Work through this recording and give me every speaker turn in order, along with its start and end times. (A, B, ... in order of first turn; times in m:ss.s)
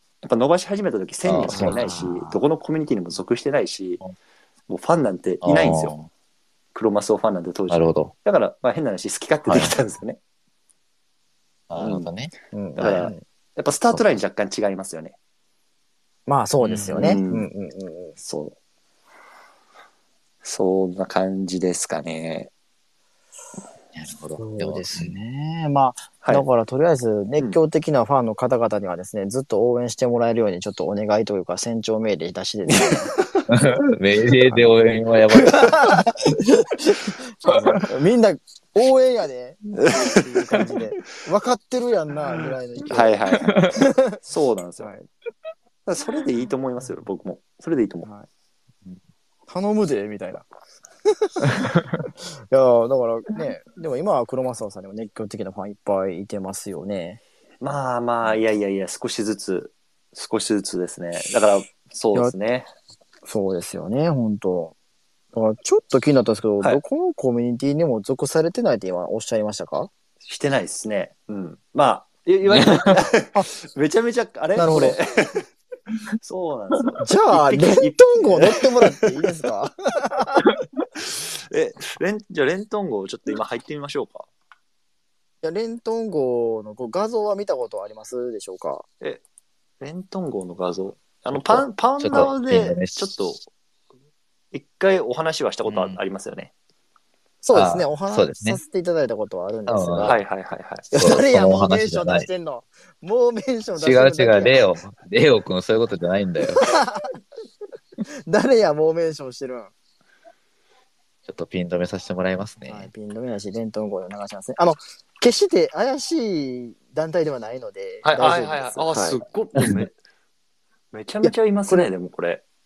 0:00.2-0:04.0 A
0:01.2-0:02.0 B
0:01.5-0:02.4 C
0:04.7-0:05.9 A
0:05.4-0:06.1 B
0:06.7-0:10.2 A
0:07.7-0:08.1 B
0:09.4-0:09.7 B
0:11.7-0:12.3 B
0:11.8-0:12.1 A
0:12.5-0:13.2 C
0:12.8-0:15.1 A
0:16.3-0:18.2 C
0:16.6-0:17.2 B
0:16.9-0:17.5 A
0:18.2-0:18.5 A
0:20.4-0:22.5 A
0:23.9-0:25.1 B
0:24.4-0:33.1 C
0:32.7-0:33.4 A
0:33.5-0:35.8 B
0:35.5-0:43.2 C
0:39.8-0:40.6 A
0:42.9-0:43.6 A
0:43.4-0:43.7 B
0:43.7-0:44.2 C
0:44.2-0:44.9 A
0:44.8-0:45.1 C
0:45.8-0:48.1 A
0:49.5-0:50.4 C
0:51.2-0:51.6 C
0:51.6-0:51.9 B
0:52.5-0:57.2 C
0:57.6-1:02.7 A
1:03.2-1:04.7 C
1:05.3-1:09.9 C
1:10.2-1:15.5 A
1:12.5-1:13.0 B
1:14.6-1:15.0 C
1:16.2-1:19.0 A
1:17.0-1:20.4 C
1:21.0-1:24.3 A
1:25.4-1:28.8 C
1:29.8-1:33.4 A
1:31.3-1:33.0 B
1:34.5-1:36.5 A
1:35.7-1:36.0 B
1:37.4-1:40.2 C
1:37.5-1:38.6 B
1:39.7-1:40.2 B
1:40.0-1:40.9 A
1:40.9-1:44.6 C
1:40.9-1:42.3 B
1:43.8-1:46.6 B
1:46.6-1:47.1 C
1:48.2-1:49.7 C
1:51.2-1:52.9 B
1:52.6-1:59.2 C
1:58.0-1:59.9 A
2:00.9-2:02.4 A
2:01.2-2:01.9 C